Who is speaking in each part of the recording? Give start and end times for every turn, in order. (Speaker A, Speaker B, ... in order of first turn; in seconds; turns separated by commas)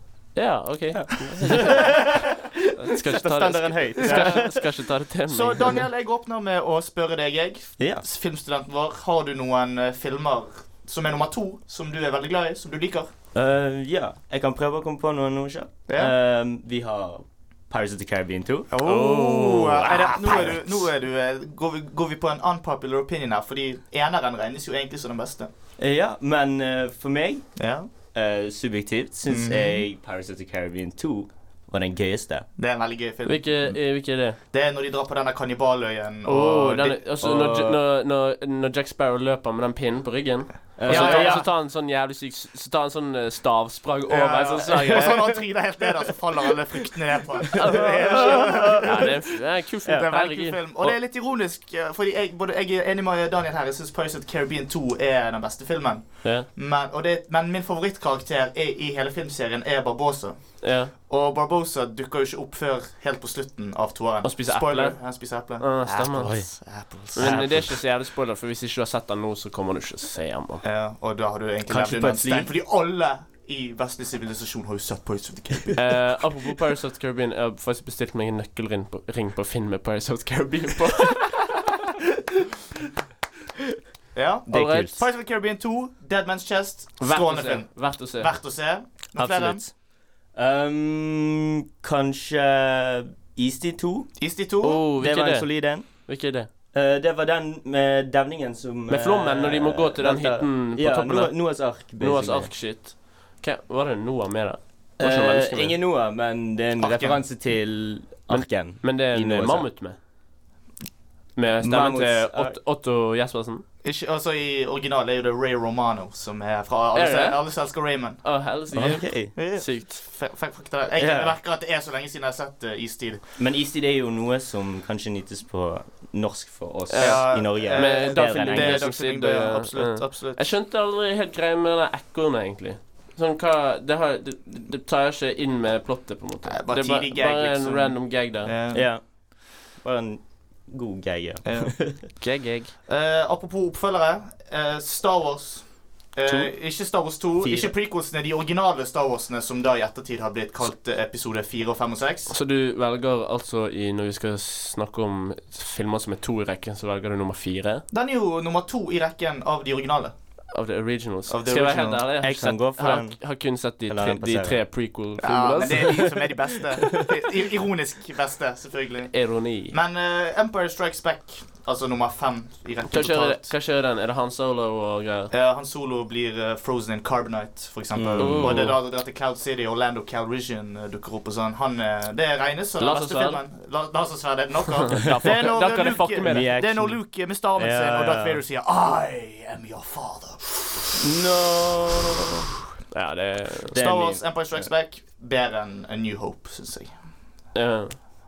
Speaker A: 0.3-2.1, Speaker B: 0.9-4.7, Speaker A: 2.7-5.8, Speaker C: 4.0-4.4, Speaker C: 5.3-13.1, Speaker B: 7.8-8.0, Speaker B: 13.3-18.7, Speaker C: 15.9-16.1, Speaker C: 18.7-25.5, Speaker A: 18.8-20.5, Speaker B: 20.2-20.6, Speaker B: 25.8-27.4, Speaker C: 27.6-27.9, Speaker B: 28.1-32.5, Speaker C: 29.3-29.8, Speaker C: 32.6-33.8, Speaker A: 33.2-34.4, Speaker C: 34.5-37.0, Speaker A: 36.2-45.4, Speaker B: 37.2-37.8, Speaker B: 40.8-41.5, Speaker C: 40.9-41.5, Speaker C: 44.1-67.8, Speaker A: 47.5-51.0, Speaker B: 47.6-49.1, Speaker A: 56.2-56.5, Speaker A: 60.6-60.9, Speaker A: 64.2-65.0, Speaker A: 65.6-66.5, Speaker B: 66.2-66.5, Speaker A: 67.1-70.6, Speaker B: 67.1-67.6, Speaker C: 70.6-76.1, Speaker B: 71.7-72.5, Speaker A: 75.8-81.5, Speaker C: 84.1-89.6, Speaker B: 84.5-85.0, Speaker A: 84.5-84.9, Speaker A: 87.0-88.3, Speaker B: 89.1-89.7, Speaker B: 90.3-94.2, Speaker C: 94.2-94.8, Speaker A: 94.6-96.5, Speaker B: 94.9-96.0, Speaker B: 96.7-102.5, Speaker A: 98.9-105.8, Speaker B: 105.0-109.7, Speaker C: 106.8-107.2, Speaker A: 108.3-110.0, Speaker A: 111.3-113.6, Speaker B: 111.6-112.6, Speaker C: 113.8-118.2, Speaker A: 116.9-117.4, Speaker A: 118.2-120.0, Speaker B: 118.7-119.3, Speaker C: 119.3-123.2, Speaker B: 120.9-121.3, Speaker B: 123.4-128.8, Speaker A: 126.9-138.5, Speaker C: 126.9-130.4, Speaker C: 136.5-138.9, Speaker B: 138.7-142.0, Speaker C: 141.4-142.2, Speaker A: 142.2-142.7, Speaker C: 142.9-152.3, Speaker A: 146.2-146.5, Speaker B: 147.4-147.7, Speaker A: 152.3-157.8, Speaker C: 157.9-160.1, Speaker A: 160.5-166.2, Speaker C: 161.3-162.0, Speaker B: 162.2-163.2, Speaker B: 163.8-164.6, Speaker C: 165.2-169.1, Speaker A: 169.1-169.8, Speaker C: 169.7-173.5, Speaker A: 172.9-175.3, Speaker C: 175.3-190.9, Speaker B: 177.9-178.7, Speaker A: 178.2-178.8, Speaker A: 182.8-183.4, Speaker A: 184.9-186.5, Speaker B: 186.2-188.4, Speaker B: 191.0-192.4, Speaker A: 192.9-193.8, Speaker B: 193.7-194.7, Speaker C: 193.7-196.9, Speaker A: 197.5-198.0